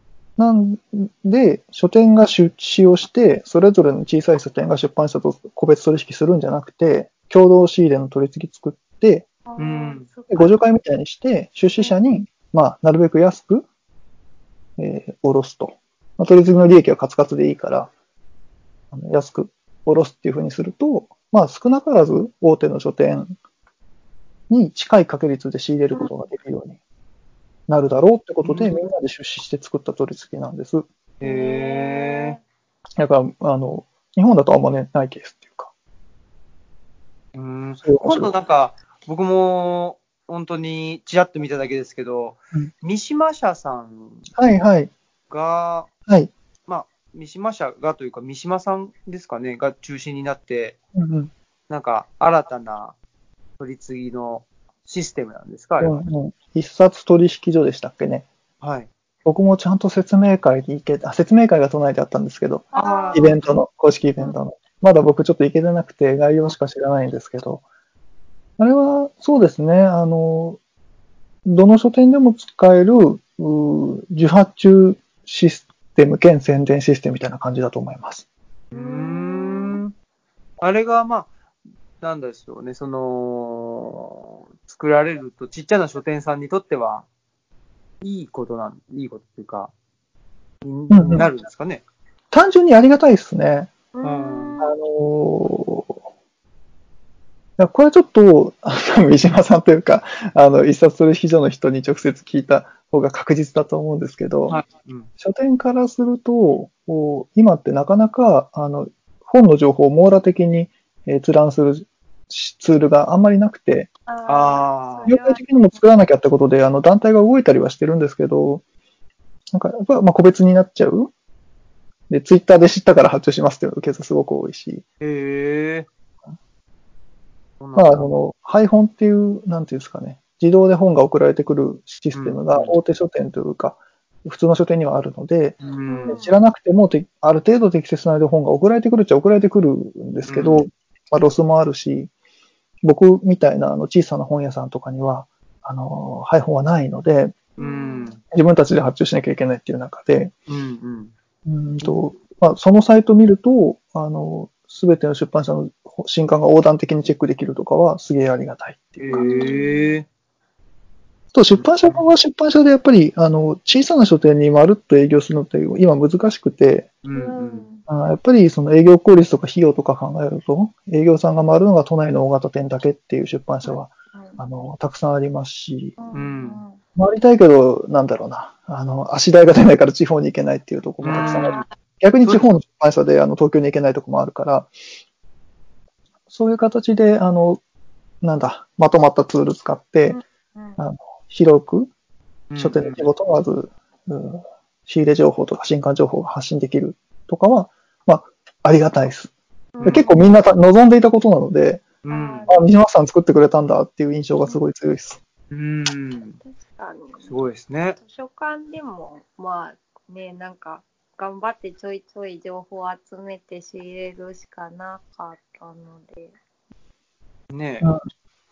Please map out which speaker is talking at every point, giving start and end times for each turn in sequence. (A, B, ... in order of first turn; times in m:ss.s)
0:00.4-0:09.3 A
0:09.5-0:10.6 B
0:09.6-0:10.1 C
0:10.3-0:13.6 A
0:14.8-0:17.9 A
0:18.9-0:23.4 A
0:24.5-0:26.8 A
0:27.7-0:30.9 A
0:28.4-0:28.8 C
0:31.2-0:32.4 C
0:31.2-0:32.4 B
0:33.0-0:35.7 A
0:37.4-0:44.3 C
0:37.8-0:38.3 A
0:44.4-0:44.9 A
0:45.3-0:45.9 C
0:46.1-0:46.3 A
0:46.7-0:50.8 C
0:51.0-0:51.3 A
0:51.7-0:53.0 C
0:53.6-0:56.0 C
0:55.8-0:58.3 A
0:58.6-0:58.9 C
0:59.2-1:07.6 A
1:02.7-1:03.4 B
1:02.7-1:03.5 C
1:08.6-1:10.6 A
1:11.4-1:18.2 A
1:18.7-1:19.8 B
1:18.7-1:19.9 C
1:20.6-1:21.3 C
1:22.0-1:27.1 C
1:28.0-1:29.7 C
1:30.6-1:31.8 C
1:30.9-1:31.3 A
1:32.3-1:33.7 A
1:33.9-1:34.8 B
1:34.0-1:34.6 C
1:34.6-1:36.0 A
1:37.6-1:44.6 A
1:44.5-1:45.1 C
1:45.2-1:53.9 A
1:54.1-1:55.8 B
1:54.3-1:55.1 C
1:55.1-1:58.6 A
1:59.5-2:01.1 A
2:02.1-2:04.8 A
2:05.0-2:05.9 C
2:07.6-2:08.0 C
2:07.8-2:22.1 A
2:12.1-2:12.7 C
2:15.6-2:16.2 C
2:15.9-2:16.4 B
2:20.3-2:20.6 C
2:22.8-2:27.4 A
2:27.6-2:28.2 C
2:27.6-2:28.1 B
2:28.3-2:30.3 A
2:30.5-2:31.1 C
2:31.5-2:39.3 A
2:39.0-2:40.0 C
2:39.1-2:40.0 B
2:41.3-2:46.9 A
2:41.6-2:42.0 C
2:47.0-2:47.7 C
2:47.1-2:47.8 B
2:47.9-2:56.0 A
2:53.6-2:54.4 B
2:56.0-2:56.8 B
2:56.1-2:56.6 C
2:57.0-3:04.7 A
3:01.0-3:01.6 C
3:01.2-3:01.7 B
3:06.3-3:07.6 A
3:08.2-3:10.2 A
3:10.1-3:10.8 B
3:10.8-3:11.9 A
3:12.5-3:13.0 C
3:12.6-3:19.3 A
3:19.8-3:20.3 B
3:19.8-3:20.1 C
3:19.8-3:21.9 A
3:22.0-3:22.5 C
3:22.1-3:22.6 B
3:22.5-3:25.2 A
3:25.5-3:26.4 C
3:26.4-3:27.4 B
3:27.3-3:28.0 C
3:28.0-3:36.4 B
3:37.5-3:37.9 C